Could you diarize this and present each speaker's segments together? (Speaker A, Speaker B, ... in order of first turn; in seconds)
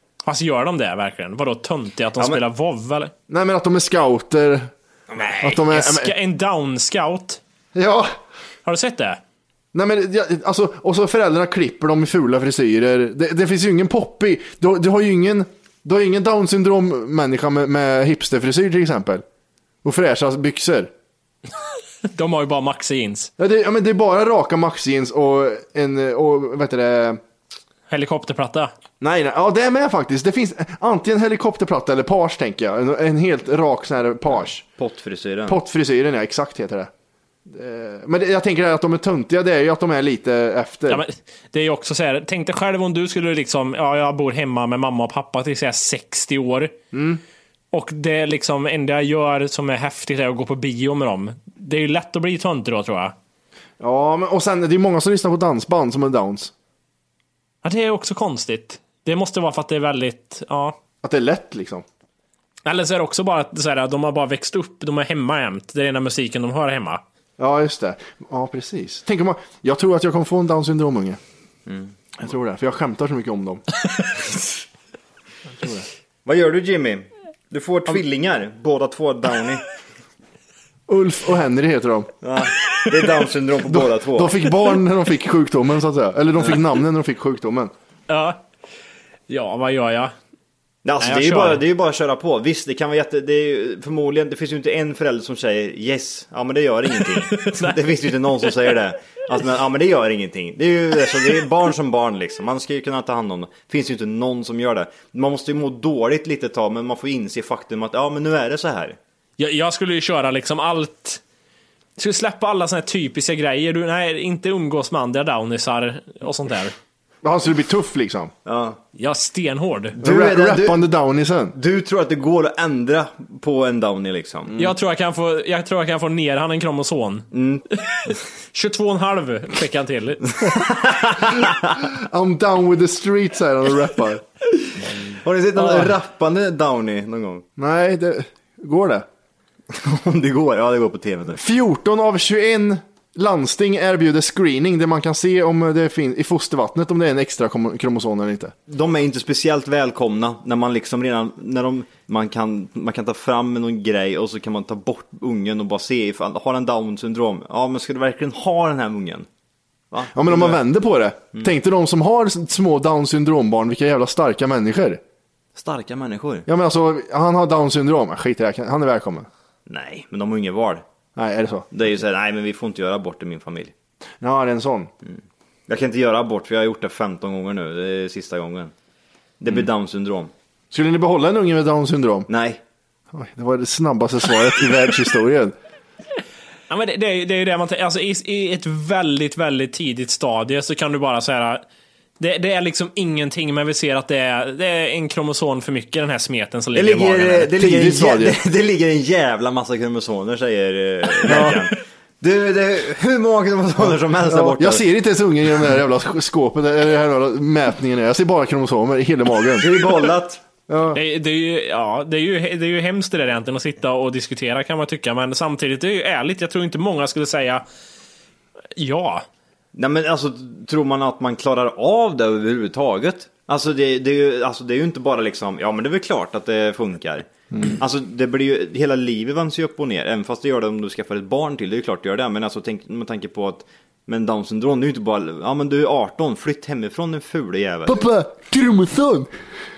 Speaker A: 0.2-3.1, 5.2-7.4, 8.6-9.2, 22.1-23.3, 27.9-28.7, 40.9-46.7, 47.7-53.1, 57.6-60.8, 62.6-67.0, 88.1-88.4, 89.3-90.1, 91.0-91.6, 97.3-97.8, 109.4-111.2, 112.0-116.7, 119.0-120.0, 124.6-130.3, 186.7-191.6, 192.2-197.5, 201.2-201.5, 210.9-217.6, 218.7-219.2
Speaker B: 3.3-4.7, 5.4-6.1, 7.7-8.2, 9.7-19.2, 19.8-20.9, 23.4-27.2, 29.0-34.6, 35.5-36.9, 37.5-41.0, 46.9-47.2, 53.8-56.5, 61.0-61.8, 67.4-71.2, 72.2-73.6, 75.5-75.9, 80.9-82.1, 83.7-87.7, 117.2-118.3, 120.0-121.5, 131.8-134.2, 137.6-139.1, 141.3-148.5, 160.1-165.0, 166.5-169.3, 171.2-171.7, 174.2-174.9, 180.7-182.3, 183.1-185.5, 197.6-198.4, 201.2-201.6, 204.3-209.7, 210.7-211.0, 237.9-239.3
Speaker C: 34.8-35.6, 71.7-71.9, 76.2-79.6, 82.2-84.4, 90.8-109.0, 118.5-118.8, 120.0-120.8, 121.5-124.5, 127.3-127.6, 130.4-131.5, 135.2-137.4, 139.7-141.4, 148.7-159.3, 159.9-160.6, 165.6-166.4, 169.7-170.8, 171.7-173.7, 175.0-178.7, 179.4-180.3, 182.3-182.6, 196.7-204.8, 209.6-210.4, 219.7-238.0